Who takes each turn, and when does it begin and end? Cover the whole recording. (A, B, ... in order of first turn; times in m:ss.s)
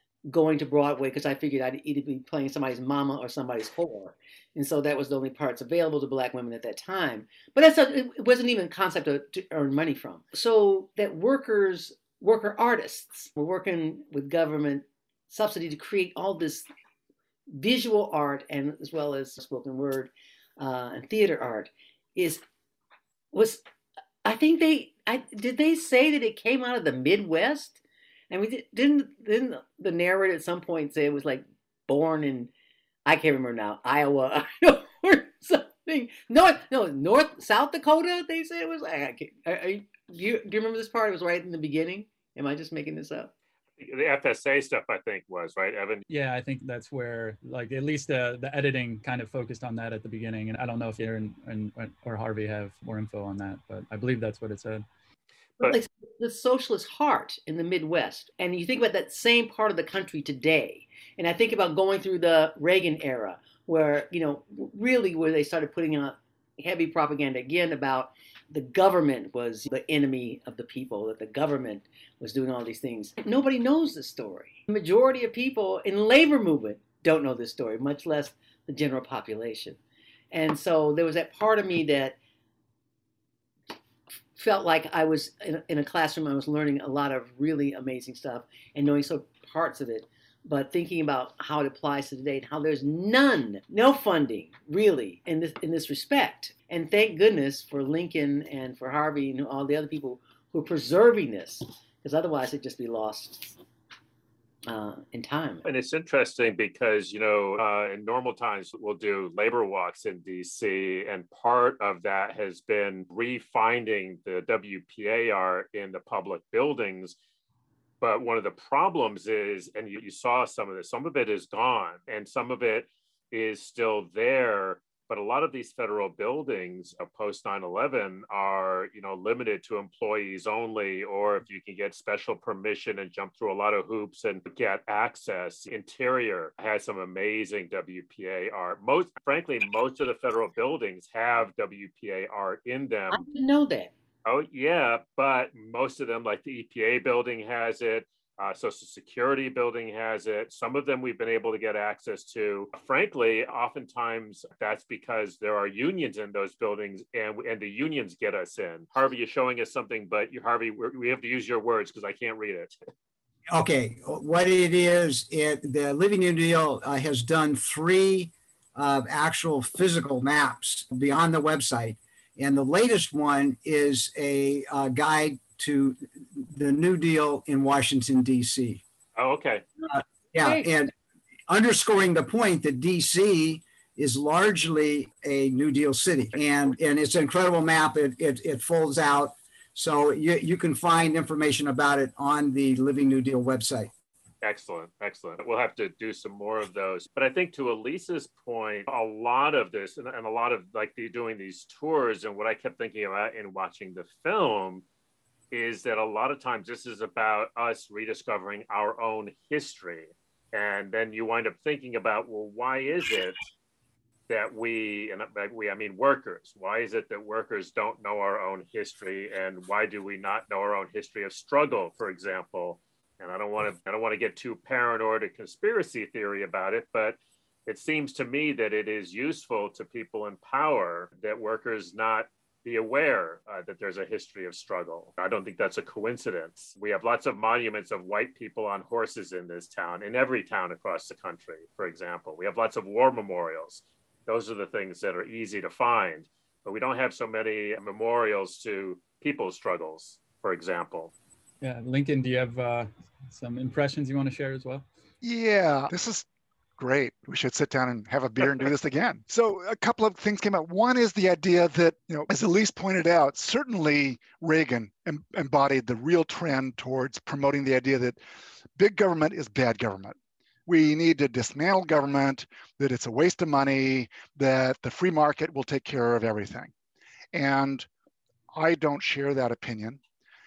0:00.3-0:16.7 A
0:17.5-0:22.4 A
0:23.3-0:23.6 A
0:24.2-0:27.8 A
0:28.3-0:32.5 A
0:33.1-0:43.3 A
0:43.8-0:46.0 B
0:46.1-0:54.8 C
0:55.6-1:19.8 A
1:20.3-1:22.2 A
1:24.4-1:43.6 A
1:44.7-1:45.6 A
1:45.6-1:57.1 B
1:58.0-2:23.2 B
2:23.1-2:23.9 A
2:24.2-2:42.7 B
2:43.5-2:58.8 D
2:59.2-2:59.6 B
2:59.8-3:00.9 D
3:00.4-3:00.7 A
3:01.5-3:13.9 D
3:14.4-3:24.8 B
3:25.5-3:33.4 B
3:34.3-4:11.1 B
4:11.6-4:14.8 C
4:15.2-4:16.3 E
4:16.8-4:28.2 E
4:28.8-4:30.1 E
4:30.7-4:36.7 E
4:37.3-4:37.9 E
4:38.5-4:40.0 E